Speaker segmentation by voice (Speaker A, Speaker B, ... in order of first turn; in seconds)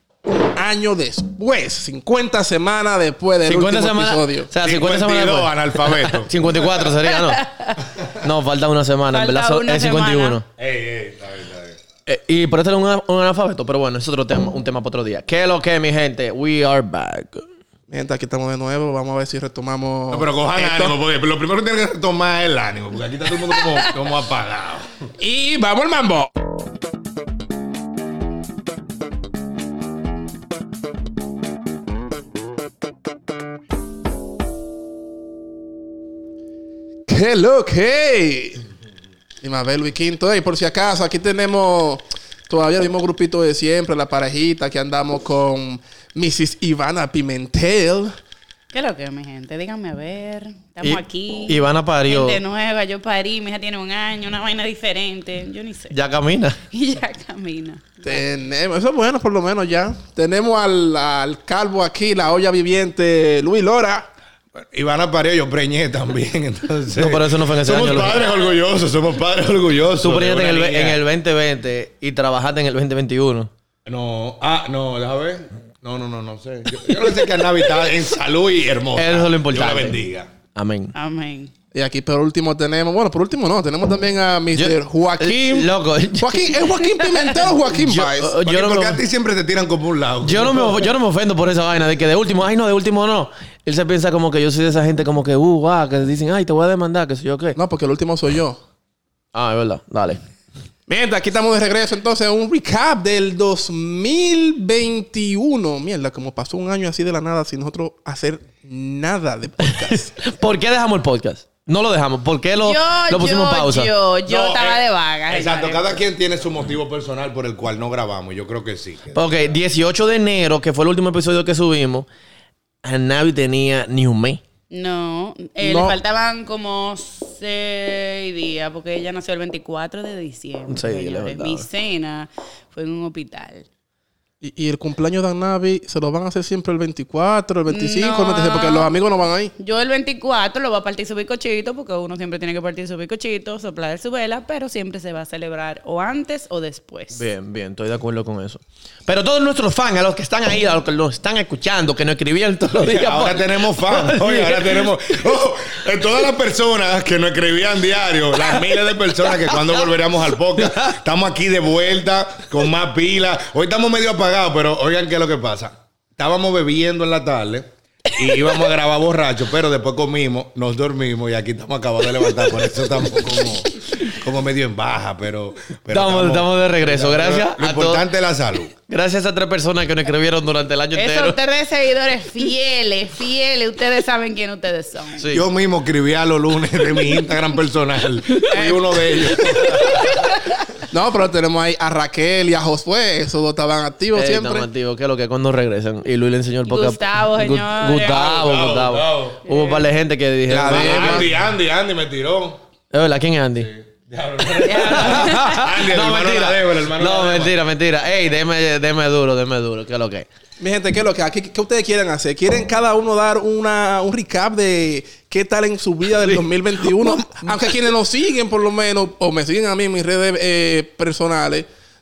Speaker A: 0.3-4.5, 17.9-20.9, 25.2-26.3, 37.0-38.6, 39.4-48.1, 58.0-64.1, 81.7-88.3, 97.5-98.6, 100.9-110.2, 125.6-126.0, 134.4-139.5, 190.9-194.7, 200.5-201.3, 210.6-221.7
Speaker B: 3.5-7.5, 8.1-10.4, 12.1-17.4, 50.8-52.4, 55.9-56.6, 67.0-68.2, 70.0-73.5, 79.0-80.0, 80.5-80.9, 84.5-86.6, 87.7-89.0, 90.2-97.6, 99.3-100.2, 109.6-113.9, 119.1-122.0, 122.8-124.4, 130.7-131.6, 147.1-155.1, 159.4-159.8, 160.6-160.9, 175.9-178.0, 178.8-181.4, 185.2-185.4, 194.1-201.3, 202.9-203.7, 204.8-210.2, 216.2-217.6
Speaker C: 4.6-6.7, 10.6-11.8, 20.1-24.9, 64.5-71.0, 73.8-80.3, 88.4-90.9, 114.3-119.5, 152.8-178.7, 185.3-190.1, 198.2-199.4, 200.7-202.6, 203.6-207.5
Speaker D: 7.0-7.7, 9.1-10.4, 48.7-56.0, 56.7-58.2, 80.9-81.5, 86.8-87.5, 112.6-115.9, 124.7-133.7, 137.7-138.9, 139.6-147.2, 180.9-185.3, 188.5-190.3, 196.7-198.4, 199.4-199.8, 204.6-205.7